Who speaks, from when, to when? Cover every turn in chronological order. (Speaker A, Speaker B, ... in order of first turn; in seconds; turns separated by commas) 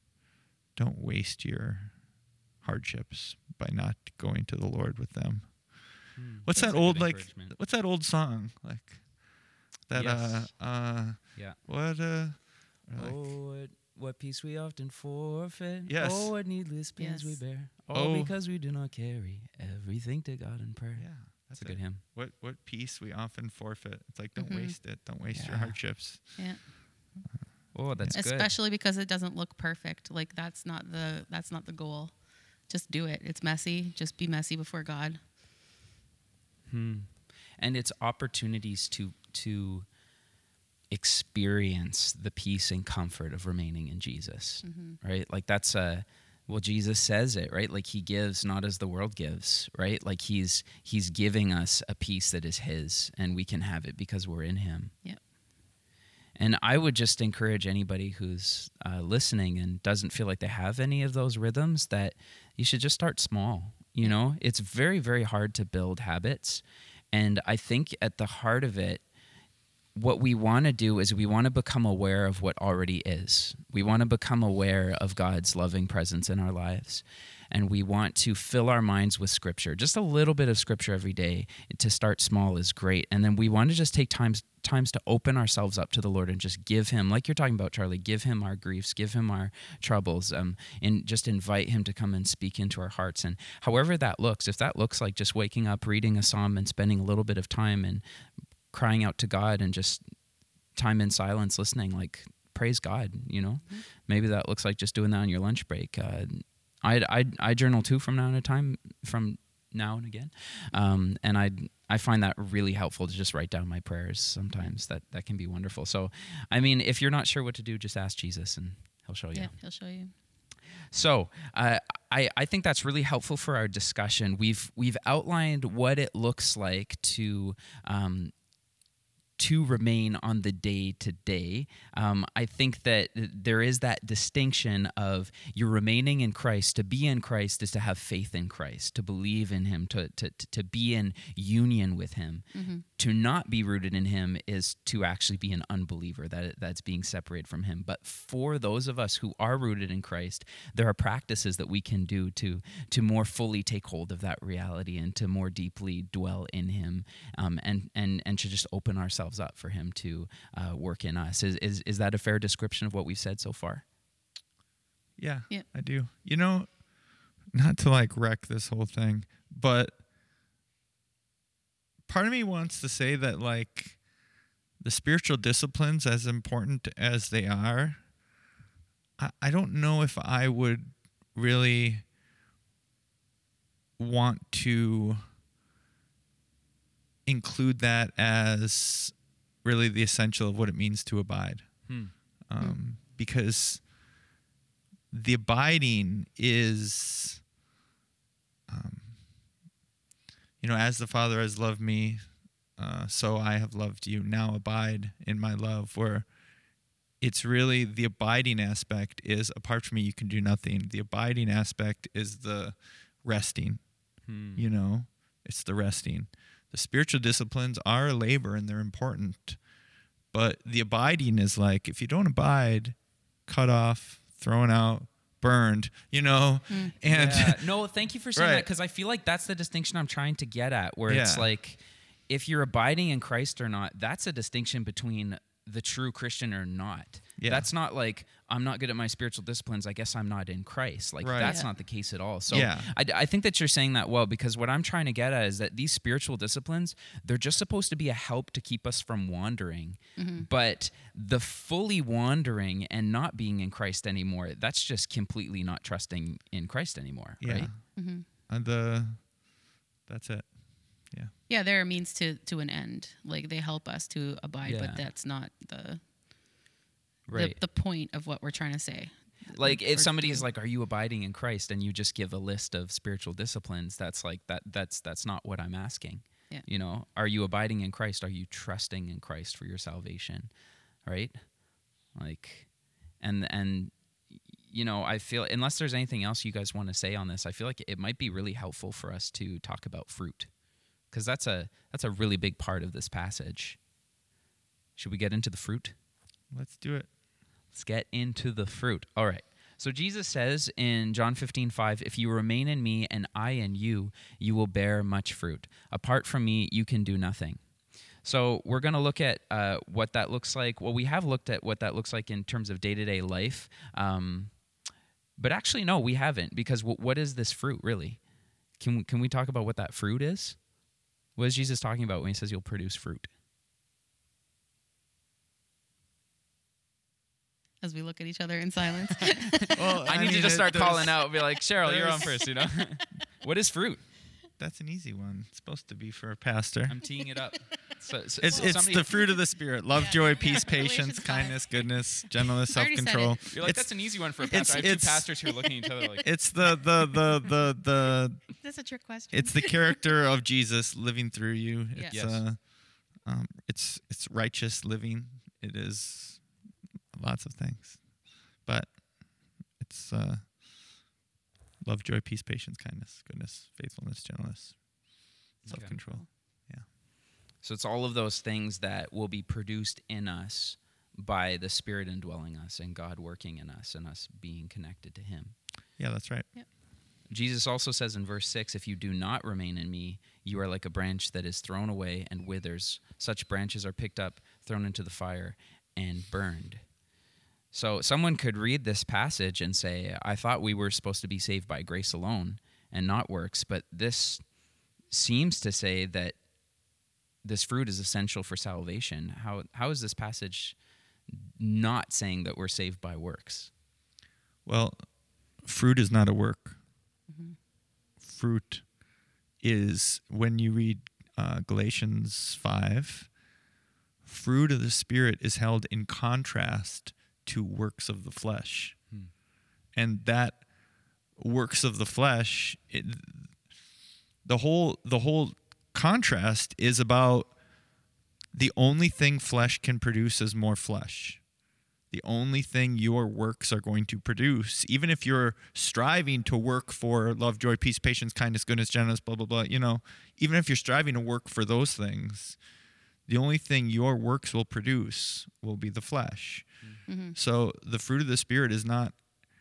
Speaker A: 0.8-13.4, Speaker B: 6.1-7.5, Speaker B: 9.9-11.6, Speaker B: 12.9-22.0, Speaker A: 15.9-16.3, Speaker C: 17.0-17.4, Speaker A: 17.9-18.3, Speaker A: 20.9-26.5, Speaker C: 24.4-24.8, Speaker B: 25.3-25.8, Speaker C: 26.4-26.8, Speaker B: 27.7-28.5, Speaker C: 28.1-35.2, Speaker B: 36.7-39.9, Speaker B: 40.9-54.9, Speaker C: 44.6-45.0, Speaker B: 56.4-69.1, Speaker B: 69.9-98.0, Speaker B: 98.7-119.5, Speaker C: 119.3-120.1, Speaker B: 120.9-128.4, Speaker B: 129.4-163.9, Speaker C: 142.5-142.8, Speaker A: 165.2-166.8, Speaker A: 167.4-170.0, Speaker A: 172.1-174.0, Speaker A: 174.8-178.1, Speaker A: 179.2-182.1, Speaker A: 184.0-185.2, Speaker A: 187.2-193.9, Speaker B: 191.9-192.1, Speaker A: 195.1-197.4, Speaker A: 198.7-199.2, Speaker A: 200.6-206.3, Speaker A: 207.2-213.9, Speaker B: 214.2-214.7, Speaker A: 214.5-219.6, Speaker A: 220.3-227.7, Speaker C: 226.7-226.9, Speaker B: 227.1-257.7, Speaker A: 228.4-228.7, Speaker A: 231.1-231.5, Speaker A: 237.4-237.7, Speaker A: 241.2-241.6, Speaker C: 241.4-241.7, Speaker A: 242.5-242.9, Speaker C: 250.2-250.5, Speaker A: 257.4-259.4, Speaker C: 257.9-258.2, Speaker A: 260.1-261.3, Speaker C: 261.5-266.1, Speaker B: 264.6-265.1, Speaker B: 267.2-267.6, Speaker C: 267.3-270.4, Speaker B: 269.5-290.5, Speaker B: 291.1-293.8, Speaker B: 294.9-295.9, Speaker A: 296.5-297.1, Speaker B: 297.7-314.7, Speaker B: 315.4-318.2, Speaker B: 318.8-320.7, Speaker B: 321.3-323.3, Speaker C: 327.8-329.7, Speaker A: 329.7-331.2, Speaker B: 330.1-334.1, Speaker A: 331.8-332.4, Speaker C: 332.2-332.8, Speaker A: 334.6-337.2, Speaker B: 336.9-339.1, Speaker A: 338.4-345.4, Speaker C: 338.4-339.4, Speaker C: 339.9-343.7, Speaker B: 343.5-346.8, Speaker A: 346.2-348.6, Speaker C: 346.6-347.5, Speaker C: 348.6-350.1, Speaker A: 349.3-356.5, Speaker B: 352.1-352.4, Speaker A: 357.1-360.9, Speaker A: 361.8-366.9, Speaker B: 365.6-366.0, Speaker C: 365.7-366.3, Speaker B: 367.6-375.6, Speaker A: 376.0-376.5, Speaker B: 377.3-386.9, Speaker B: 387.7-394.4, Speaker B: 395.1-396.4, Speaker B: 397.4-400.8, Speaker B: 401.3-403.7, Speaker A: 404.6-406.8, Speaker C: 407.3-407.6, Speaker A: 408.2-408.9, Speaker A: 409.6-413.3, Speaker A: 414.2-419.1, Speaker A: 419.9-420.7, Speaker A: 421.3-423.6, Speaker A: 424.4-427.6, Speaker A: 428.5-431.4, Speaker A: 432.1-442.6, Speaker A: 443.3-449.2, Speaker C: 447.1-447.4